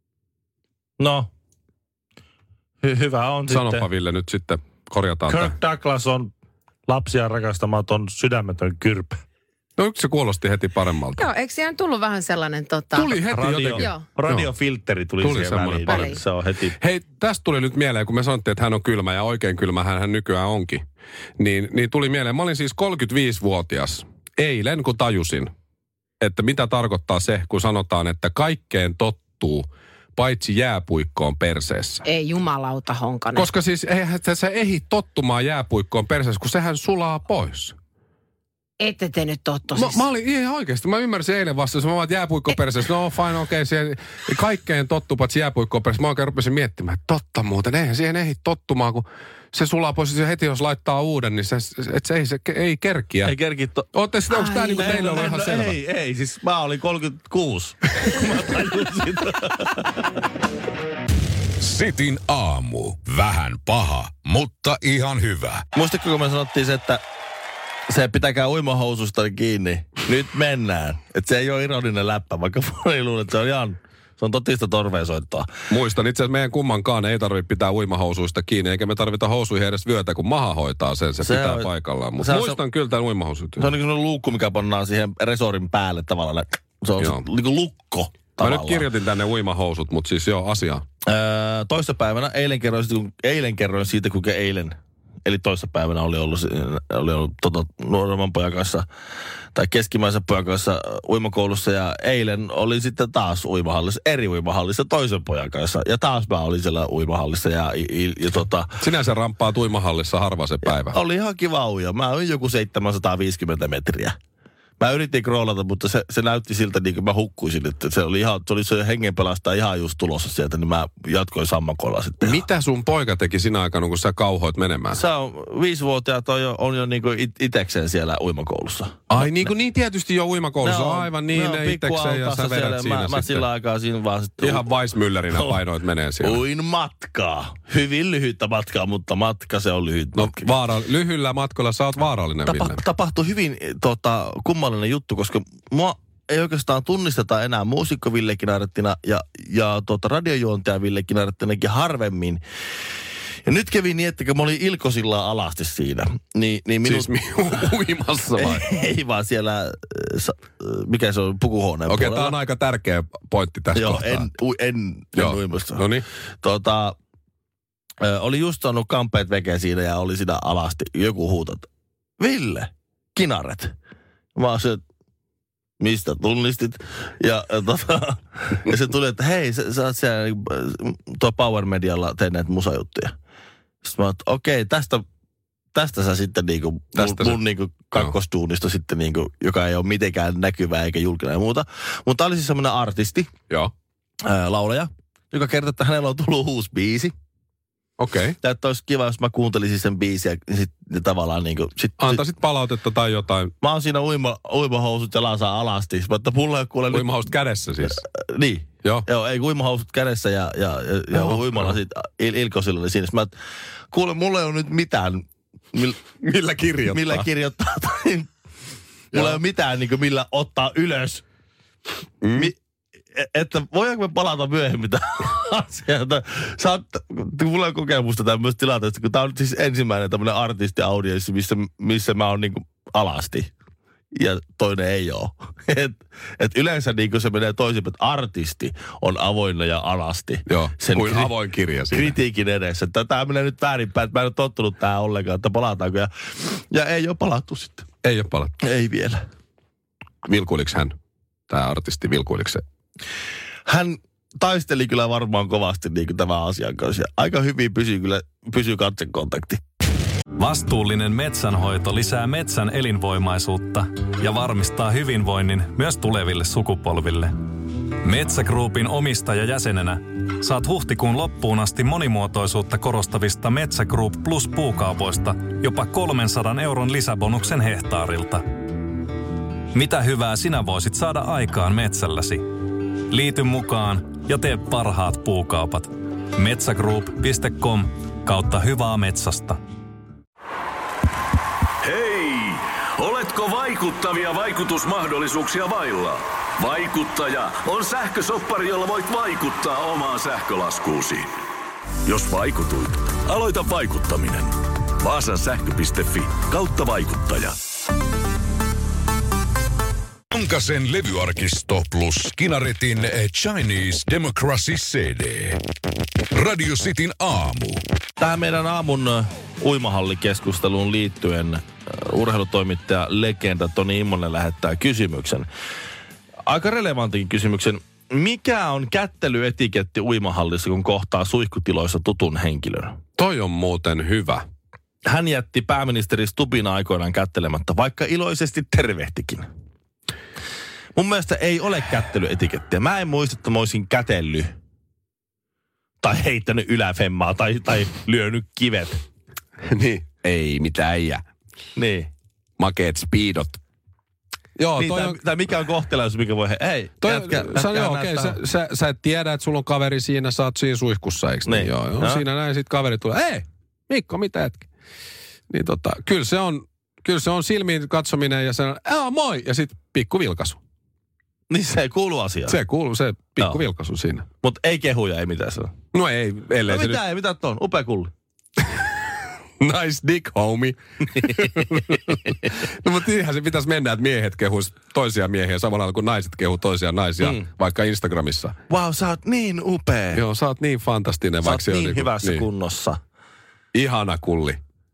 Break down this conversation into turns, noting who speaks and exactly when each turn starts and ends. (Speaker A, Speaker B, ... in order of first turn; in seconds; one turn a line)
Speaker A: 1.0-1.3
Speaker A: 2.8-3.9
Speaker B: 3.5-5.5
Speaker A: 5.3-6.3
Speaker A: 6.9-9.2
Speaker B: 9.8-11.3
Speaker C: 11.2-13.2
Speaker B: 12.9-14.5
Speaker A: 13.3-16.8
Speaker C: 13.8-14.0
Speaker B: 15.2-16.2
Speaker C: 15.9-16.2
Speaker B: 16.8-20.8
Speaker B: 21.4-25.5
Speaker B: 26.2-32.0
Speaker C: 32.0-33.5
Speaker B: 33.4-37.7
Speaker C: 38.8-40.1
Speaker B: 39.7-53.3
Speaker A: 53.2-53.9
Speaker B: 53.9-55.8
Speaker C: 54.3-54.8
Speaker A: 54.6-60.0
Speaker D: 61.6-65.6
Speaker A: 65.7-67.0
Speaker A: 67.9-75.5
Speaker B: 75.7-83.7
Speaker A: 81.2-82.6
Speaker A: 83.6-88.8
Speaker B: 88.4-90.8
Speaker A: 91.1-98.9
Speaker A: 99.5-108.7
Speaker B: 108.8-111.0
Speaker A: 110.7-114.2
Speaker A: 114.8-122.4
Speaker B: 122.2-125.0
Speaker A: 124.9-129.5
Speaker B: 129.1-133.5
Speaker A: 130.6-134.7
Speaker B: 134.4-136.4
Speaker A: 135.3-135.6
Speaker A: 136.2-140.5
Speaker B: 140.2-142.8
Speaker A: 142.5-152.4
Speaker A: 153.4-157.1
Speaker B: 156.8-158.7
Speaker A: 158.4-162.3
Speaker B: 161.9-164.3
Speaker A: 163.7-165.9
Speaker B: 165.2-166.1
Speaker A: 166.4-166.9
Speaker A: 168.0-171.7
Speaker A: 172.2-173.7
Speaker A: 174.4-174.8
Speaker A: 175.8-183.1
Speaker A: 183.8-185.0
Speaker A: 185.7-193.3
Speaker B: 187.0-187.4
Speaker A: 194.2-197.1
Speaker B: 198.0-198.4
Speaker A: 198.4-202.2
Speaker B: 202.0-203.5
Speaker A: 203.6-207.2
Speaker B: 206.9-208.0
Speaker A: 207.9-213.3
Speaker B: 211.2-211.7
Speaker A: 213.9-216.0
Speaker B: 216.2-217.3
Speaker A: 216.9-218.3
Speaker A: 219.1-221.2
Speaker B: 219.1-219.4
Speaker B: 222.2-222.5
Speaker A: 223.2-233.5
Speaker A: 234.2-241.3
Speaker B: 240.5-242.1
Speaker A: 241.9-247.9
Speaker B: 248.0-248.6
Speaker A: 248.6-249.2
Speaker B: 250.2-250.9
Speaker B: 251.5-252.6
Speaker A: 253.7-259.6
Speaker E: 260.4-267.4
Speaker E: 268.0-278.4
Speaker E: 279.7-282.5
Speaker E: 283.1-289.6
Speaker F: 291.8-301.3
Speaker F: 302.1-307.5
Speaker D: 310.3-315.6
Speaker D: 316.3-317.8
Speaker A: 318.2-325.5
Speaker A: 326.5-332.9
Speaker B: 333.2-334.4
Speaker A: 335.1-339.4
Speaker A: 340.9-344.5
Speaker A: 346.0-349.0
Speaker B: 349.7-351.2
Speaker A: 351.8-352.1
Speaker B: 352.6-353.6
Speaker B: 354.6-355.2
Speaker A: 354.8-358.4
Speaker B: 357.0-364.7
Speaker A: 361.5-362.2
Speaker B: 365.5-370.6
Speaker A: 371.5-372.6
Speaker B: 372.5-374.3
Speaker A: 374.4-375.7
Speaker B: 375.9-377.0
Speaker A: 376.7-378.1
Speaker B: 379.6-388.6
Speaker A: 388.7-390.2
Speaker B: 390.1-392.4
Speaker A: 391.4-393.0
Speaker B: 393.7-394.6